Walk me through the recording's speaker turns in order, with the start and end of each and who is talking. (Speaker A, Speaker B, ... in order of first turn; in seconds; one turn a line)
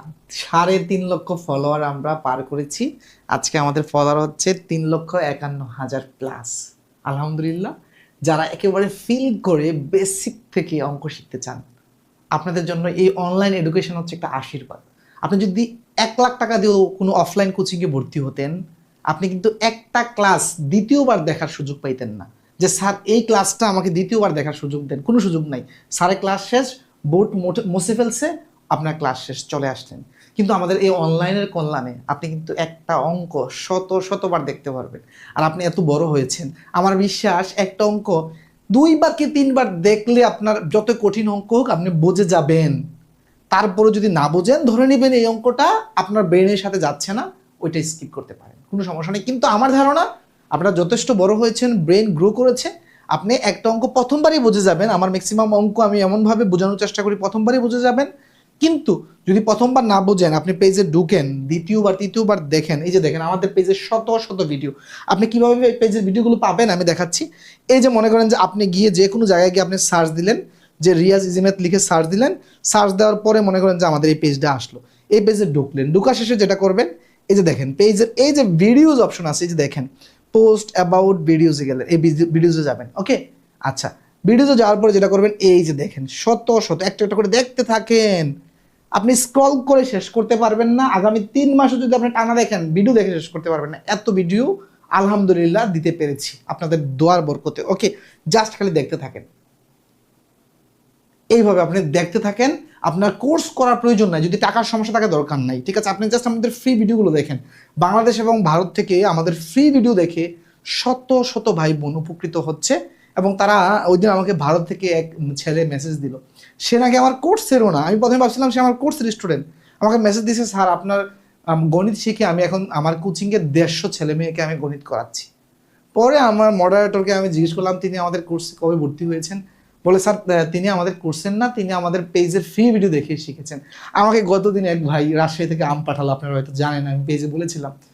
Speaker A: 0.3-6.5
Speaker A: 7.1-7.7
Speaker A: 8.3-11.6
Speaker A: 12.3-18.5
Speaker A: 19.1-38.2
Speaker A: 38.7-42.8
Speaker A: 43.5-58.1
Speaker A: 58.6-88.3
Speaker A: 89.0-99.2
Speaker A: 101.3-110.2
Speaker A: 110.8-121.0
Speaker A: 121.7-125.3
Speaker A: 126.0-137.7